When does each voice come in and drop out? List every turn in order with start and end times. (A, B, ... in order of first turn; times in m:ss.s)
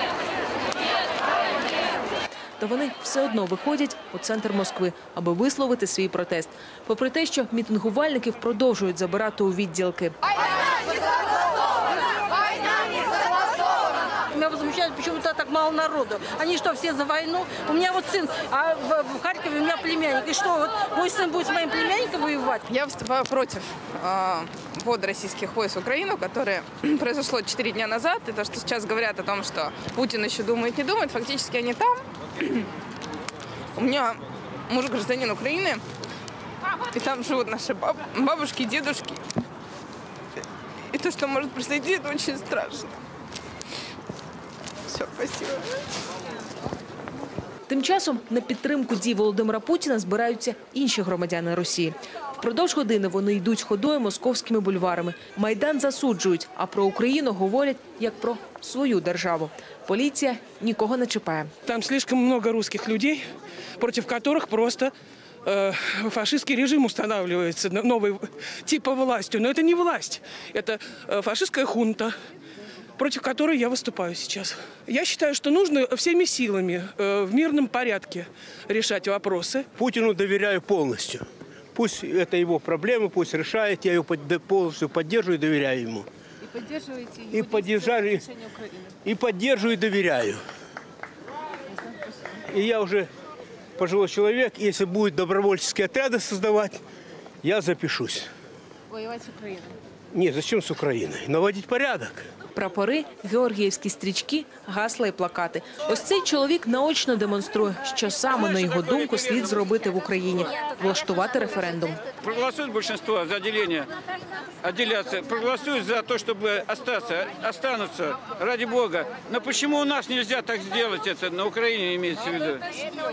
0:02.6-0:10.2 A
0:12.9-0:13.2 B
0:14.3-0:22.6 B
0:22.7-0:32.0 C
0:33.8-0:34.2 C
0:34.7-0:35.8 C
0:36.9-0:39.2 C
0:40.9-0:42.9 C
0:44.9-0:45.6 C
0:47.7-1:01.5 A
1:01.7-1:03.2 D
1:03.8-1:04.9 D
1:05.5-1:12.1 D
1:13.0-1:19.7 D
1:19.8-1:21.2 E
1:21.8-1:26.1 E
1:27.1-1:28.4 E
1:29.0-1:30.4 E
1:32.5-1:33.1 E
1:33.8-1:36.8 E
1:37.4-1:38.3 E
1:40.1-1:42.3 E
1:42.6-1:52.0 A
1:52.2-1:53.9 F
1:54.6-2:02.8 F